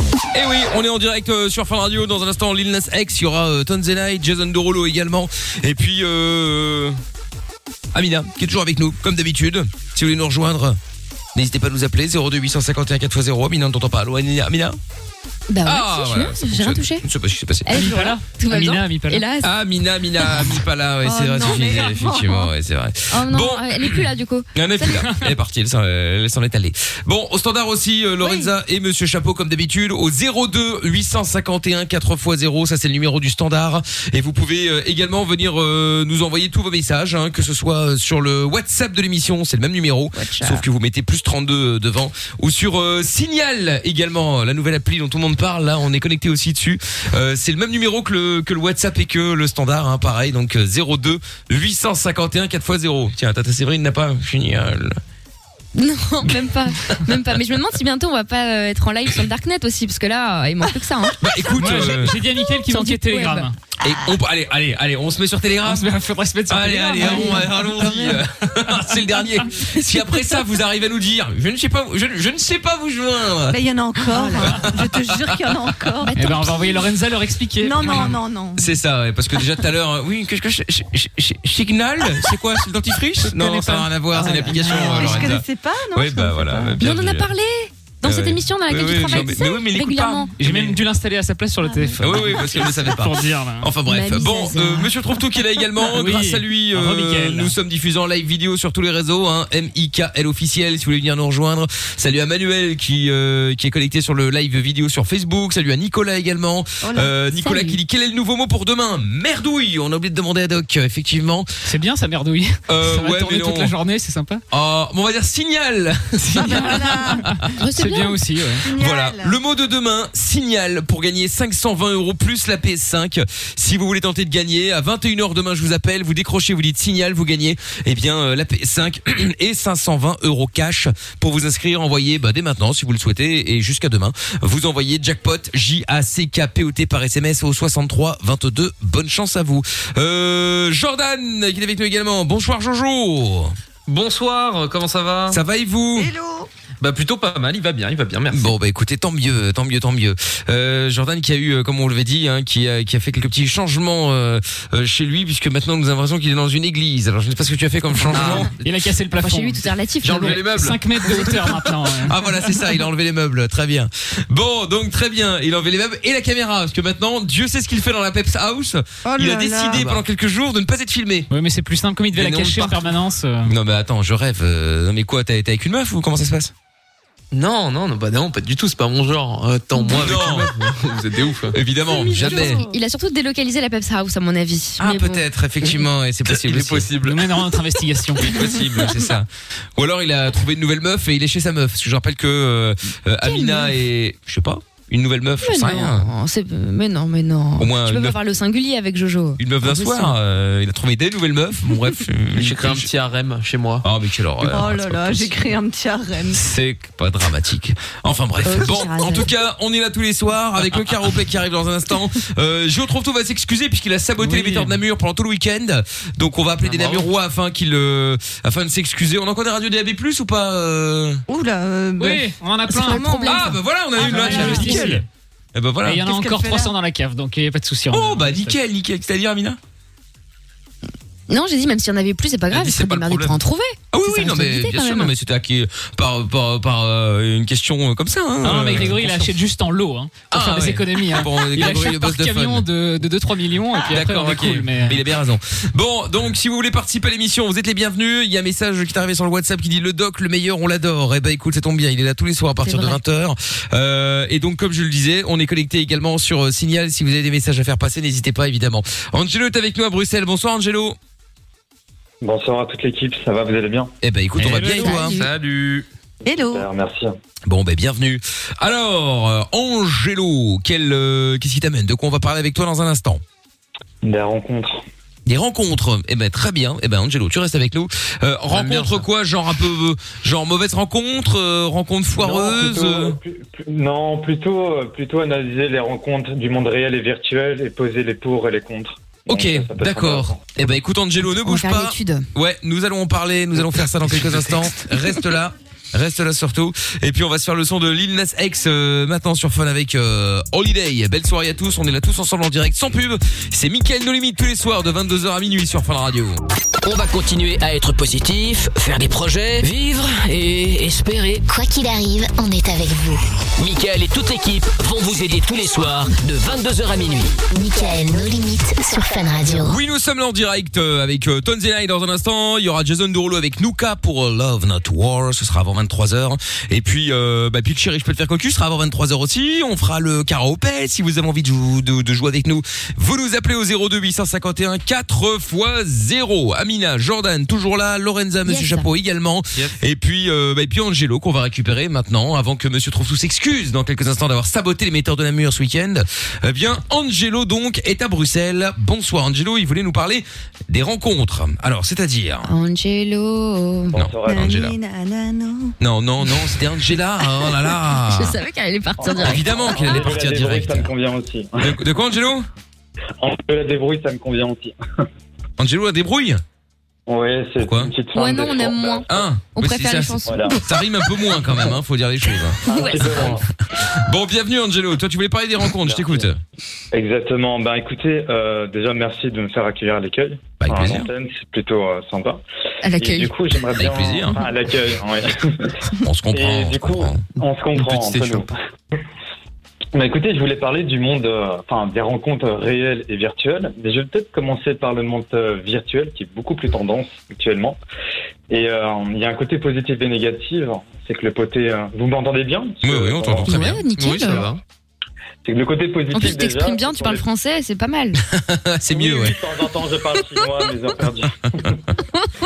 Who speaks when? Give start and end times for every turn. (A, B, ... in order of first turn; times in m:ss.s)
0:00.3-0:07.0 A
0:07.9-0:10.8 A
0:11.4-0:14.8 A
0:15.5-0:17.0 B
0:15.7-0:17.7 A
0:17.7-0:19.5 B
0:17.7-0:19.2 C
0:19.4-0:55.0 A
0:20.2-0:22.4 B
0:21.0-0:22.4 D
0:23.1-0:25.1 B
0:28.2-0:28.5 D
0:40.2-0:40.6 B
0:55.8-1:01.6 B
1:01.2-1:02.2 A
1:01.6-1:03.6 C
1:02.6-1:03.5 B
1:03.8-1:05.9 A
1:05.6-1:08.1 C
1:06.5-1:13.6 A
1:07.0-1:08.2 D
1:13.5-1:16.6 D
1:14.1-1:14.6 B
1:14.5-1:15.7 A
1:16.0-1:16.7 B
1:16.1-1:18.2 C
1:17.6-1:18.7 D
1:17.9-1:18.2 B
1:18.6-1:27.3 A
1:19.4-1:19.6 D
1:23.3-1:23.9 C
1:24.1-1:26.8 D
1:25.0-1:25.4 B
1:26.8-1:30.3 B
1:28.0-1:30.8 A
1:30.4-1:33.7 C
1:32.0-1:51.5 A
1:33.9-1:34.9 B
1:35.8-1:37.6 C
1:46.8-1:47.7 D
1:47.4-1:47.7 B
1:51.6-1:54.4 C
1:52.7-1:53.7 A
1:54.5-1:57.4 A
1:56.2-1:58.6 C
1:56.4-1:57.3 D
1:57.6-1:58.2 B
1:58.6-1:59.4 D
1:58.7-2:23.6 A
2:23.9-2:25.4 E
2:25.3-2:26.1 A
2:26.0-2:26.5 D
2:26.8-2:28.6 E
2:28.3-2:38.5 A
2:38.1-2:38.5 E
2:38.2-2:42.1 C
2:39.2-2:40.4 B
2:40.0-2:51.3 A
2:49.0-2:49.9 D
2:51.3-2:53.5 C
2:52.2-2:52.8 A
2:53.4-2:56.5 A
2:57.3-3:01.6 E
2:59.9-3:00.5 A
3:01.5-3:02.7 A
3:01.9-3:02.8 D
3:02.2-3:05.7 B
3:04.8-3:07.0 A
3:06.3-3:07.2 E
3:07.0-3:08.3 C
3:08.2-3:16.1 A
3:13.2-3:13.7 B
3:15.4-3:20.2 B
3:17.6-3:18.2 A
3:19.4-3:22.9 A
3:22.3-3:23.8 E
3:23.8-3:25.3 A
3:24.5-3:26.4 D
3:26.3-3:41.2 A
3:28.4-3:29.3 D
3:34.2-3:34.8 C
3:36.6-3:37.1 E
3:41.3-3:43.2 D
3:42.0-3:45.0 C
3:42.7-3:43.6 B
3:43.2-3:46.1 A
3:44.0-3:44.8 D
3:44.2-3:44.4 B
3:45.8-3:48.6 C
3:46.1-3:46.7 D
3:47.9-3:49.6 A
3:51.3-3:55.1 B
3:52.5-3:53.3 E
3:52.5-3:53.4 A
3:53.9-3:59.3 A
3:58.4-4:05.0 C
4:00.3-4:02.7 A
4:03.9-4:21.0 A
4:12.6-4:13.0 B
4:22.2-4:23.9 F
4:24.0-4:25.2 A
4:24.4-4:25.9 E
4:24.8-4:25.3 B
4:26.2-4:26.7 D
4:26.5-4:27.1 F
4:27.5-4:33.2 A
4:34.0-4:34.8 F
4:35.3-4:43.2 A
4:38.5-4:39.0 E
4:42.2-4:50.5 F
4:49.3-5:06.4 A
4:51.3-4:52.3 B
4:54.0-4:54.8 E
5:06.8-5:11.5 G
5:11.5-5:13.2 H
5:13.6-5:17.4 G
5:17.5-5:19.8 H
5:19.6-5:52.5 A
5:38.5-5:38.9 B
5:52.5-5:54.0 B
5:53.9-5:54.8 A
5:54.0-5:54.6 F
5:54.3-5:55.8 D
5:55.8-5:58.4 A
5:57.5-6:00.0 B
5:59.0-6:01.8 F
5:59.1-6:00.9 A
6:01.6-6:02.5 A
6:03.2-6:04.8 F
6:05.6-6:06.4 A
6:07.1-6:09.2 F
6:07.6-6:07.9 A
6:08.1-6:10.6 B
6:09.1-6:13.4 A
6:10.3-6:10.6 F
6:12.6-6:13.4 B
6:12.7-6:13.4 F
6:14.0-6:16.4 A
6:15.8-6:16.3 F
6:16.9-6:22.4 F
6:20.6-6:21.1 A
6:22.8-6:23.3 B
6:23.0-6:25.8 F
6:23.8-6:24.4 A
6:26.0-6:27.3 A
6:26.3-6:28.5 F
6:27.8-6:28.5 E
6:29.9-6:37.8 F
6:38.5-6:43.7 F
6:42.8-6:43.9 A
6:43.5-6:44.5 B
6:43.9-6:44.6 E
6:45.4-6:47.2 F
6:46.1-6:48.2 B
6:48.3-6:49.4 A
6:48.9-6:51.8 F